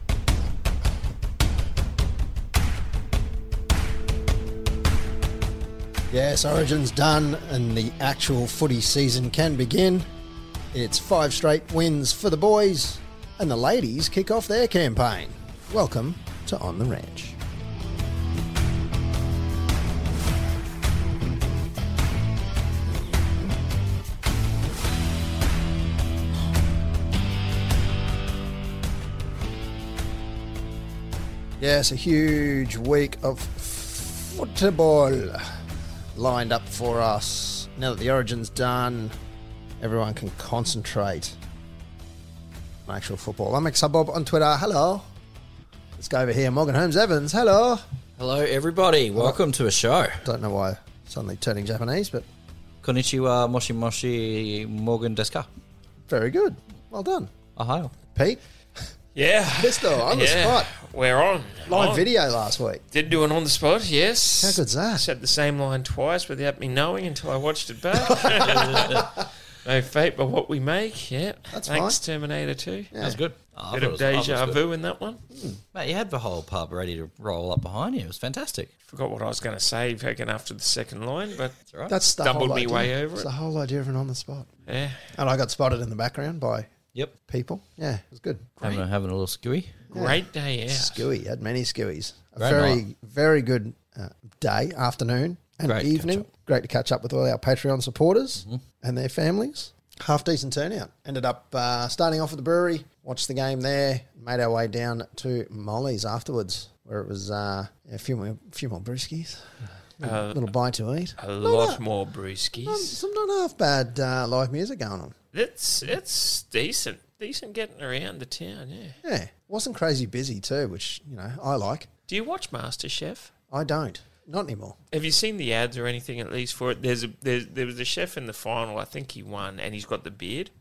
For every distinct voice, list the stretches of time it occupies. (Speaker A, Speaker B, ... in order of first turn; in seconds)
Speaker A: 6.1-10.1, 10.7-17.4, 31.6-35.5, 36.1-39.1, 39.8-41.4, 42.9-45.1, 46.0-47.8, 49.1-49.4, 50.2-52.3, 56.1-57.3, 58.1-58.4, 59.6-60.7, 61.7-62.8, 64.4-65.1, 71.5-72.0, 72.9-73.2, 75.3-75.6, 81.9-84.5, 85.1-86.7, 87.3-88.7, 89.9-111.8, 112.6-115.2, 119.0-121.9, 123.5-124.8
Speaker B: 48.2-50.2, 52.8-55.5, 57.5-57.9, 68.2-69.1, 73.0-74.6, 75.7-78.7, 81.7-82.0, 88.6-89.8, 92.4-92.8, 95.7-96.3
Speaker C: 59.1-62.1, 62.9-69.1, 69.6-72.9, 73.7-75.2, 78.9-81.5, 82.2-83.3, 84.7-85.1, 89.9-91.0, 110.0-110.5, 111.2-113.0, 115.3-119.0, 122.1-123.3, 124.9-130.5